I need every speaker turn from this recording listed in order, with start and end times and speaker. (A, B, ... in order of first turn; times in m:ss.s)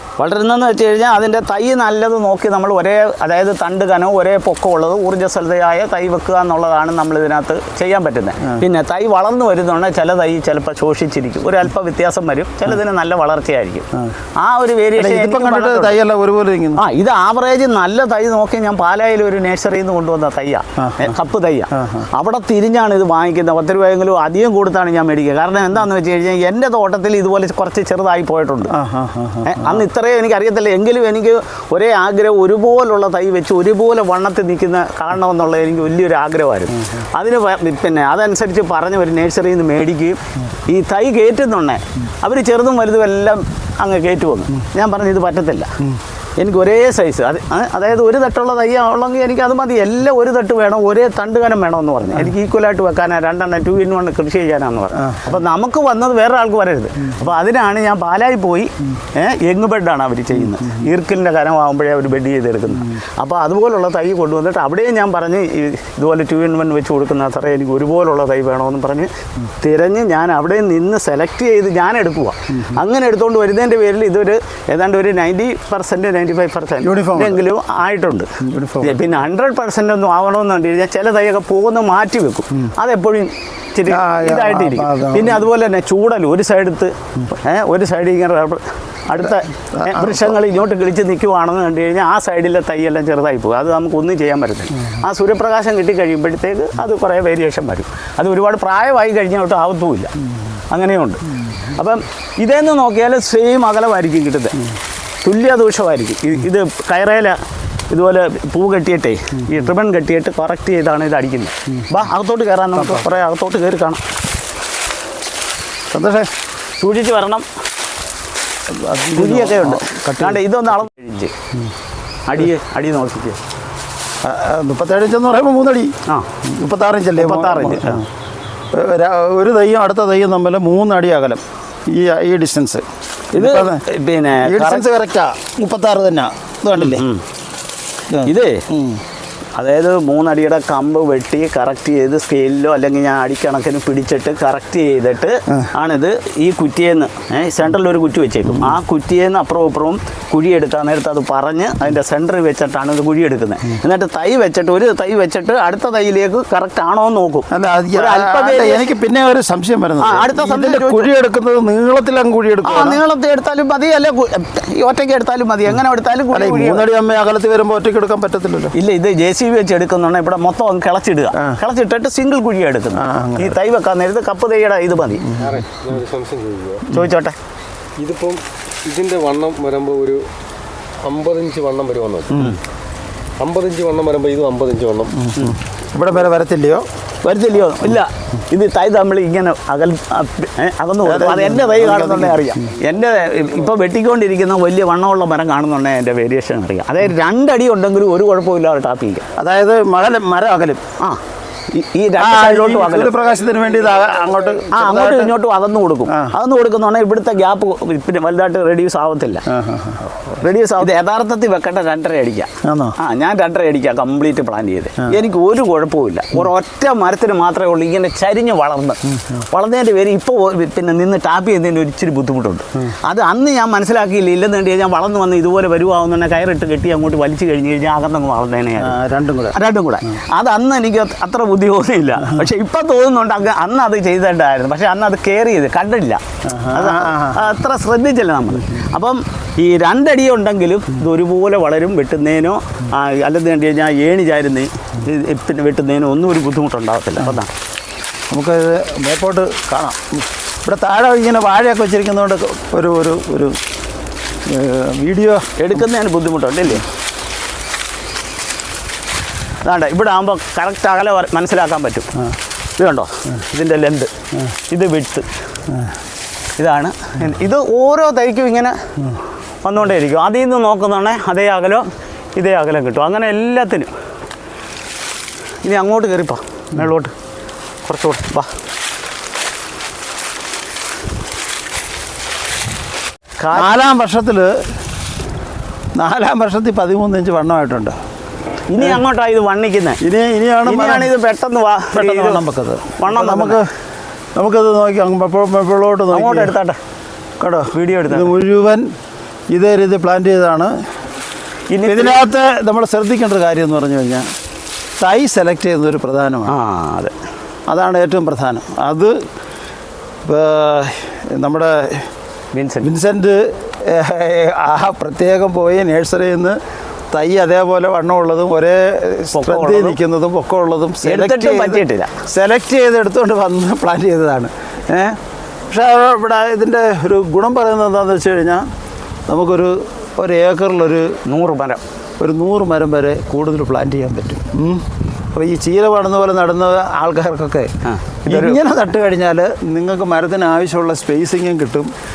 0:00.2-0:13.9 A
0:14.4-0:16.0 A
0:15.0-0:16.8 B
0:16.8-0:28.7 A
0:20.8-0:21.1 B
0:21.7-0:22.1 B
0:28.7-0:29.8 B
0:29.4-0:45.7 A
0:46.4-1:40.1 A
0:55.0-0:55.3 B
1:00.6-1:00.8 B
1:16.8-1:17.4 B
1:18.4-1:19.1 B
1:23.8-1:25.4 B
1:29.2-1:30.4 B
1:40.7-1:44.6 A
1:45.2-1:47.4 A
1:47.9-1:54.0 A
1:52.7-1:53.1 B
1:55.9-1:56.3 B
1:56.8-1:57.4 A
1:58.7-2:00.4 B
1:59.1-2:01.3 A
2:02.3-2:03.4 A
2:04.2-2:05.9 B
2:06.4-2:08.1 B
2:07.2-2:08.0 A
2:08.7-2:13.8 B
2:13.3-2:14.9 A
2:14.4-2:17.0 B
2:16.7-2:17.2 A
2:18.1-2:19.0 B
2:18.2-2:18.6 A
2:19.6-2:39.0 A
2:37.5-2:43.0 B
2:40.0-2:41.1 A
2:42.6-2:46.9 A
2:46.3-2:48.7 B
2:48.7-2:55.4 A
2:52.9-2:53.6 B
2:55.3-2:55.6 B
2:55.3-2:56.9 C
2:56.9-2:57.4 A
2:58.0-3:00.3 C
3:01.0-3:02.4 C
3:02.3-3:02.6 B
3:03.4-3:05.2 C
3:05.1-3:06.8 B
3:07.2-3:19.2 A
3:11.0-3:12.6 B
3:19.4-3:20.8 B
3:21.7-3:23.2 A
3:22.2-3:25.4 B
3:24.7-3:29.4 A
3:26.1-3:26.3 B
3:29.5-3:30.3 B
3:30.4-3:49.0 A
3:32.6-3:33.0 B
3:39.1-3:39.4 B
3:48.8-3:49.6 B
3:49.5-4:07.5 A
3:56.4-3:57.5 B
4:08.3-4:13.6 B
4:14.5-4:15.8 B
4:15.6-4:16.9 A
4:19.6-4:22.1 A
4:22.8-4:24.1 A
4:24.7-4:25.2 A
4:25.7-4:25.9 B
4:26.6-4:28.8 A
4:29.6-4:33.9 A
4:35.6-4:37.1 A
4:37.8-4:38.5 A
4:43.4-4:43.8 A
4:43.5-4:44.5 B
4:46.0-4:48.0 B
4:48.7-4:50.0 A
4:50.0-4:51.1 B
4:50.6-4:52.4 A
4:51.9-4:53.7 B
4:53.0-4:53.6 A
4:54.3-4:56.6 B
4:56.1-4:56.8 A
4:57.4-4:58.9 B
4:57.7-4:58.3 A
4:59.5-5:00.7 B
5:01.7-5:02.2 A
5:01.8-5:04.3 B
5:05.0-5:06.5 B
5:06.5-5:07.1 A
5:07.7-5:09.1 B
5:10.2-5:12.1 B
5:12.5-5:12.9 A
5:12.8-5:16.6 B
5:17.1-5:28.6 B
5:19.3-5:20.0 A
5:21.0-5:22.2 A
5:29.3-5:31.1 B
5:31.2-5:31.8 A
5:32.2-5:37.7 B
5:37.8-5:38.6 A
5:38.2-5:41.9 B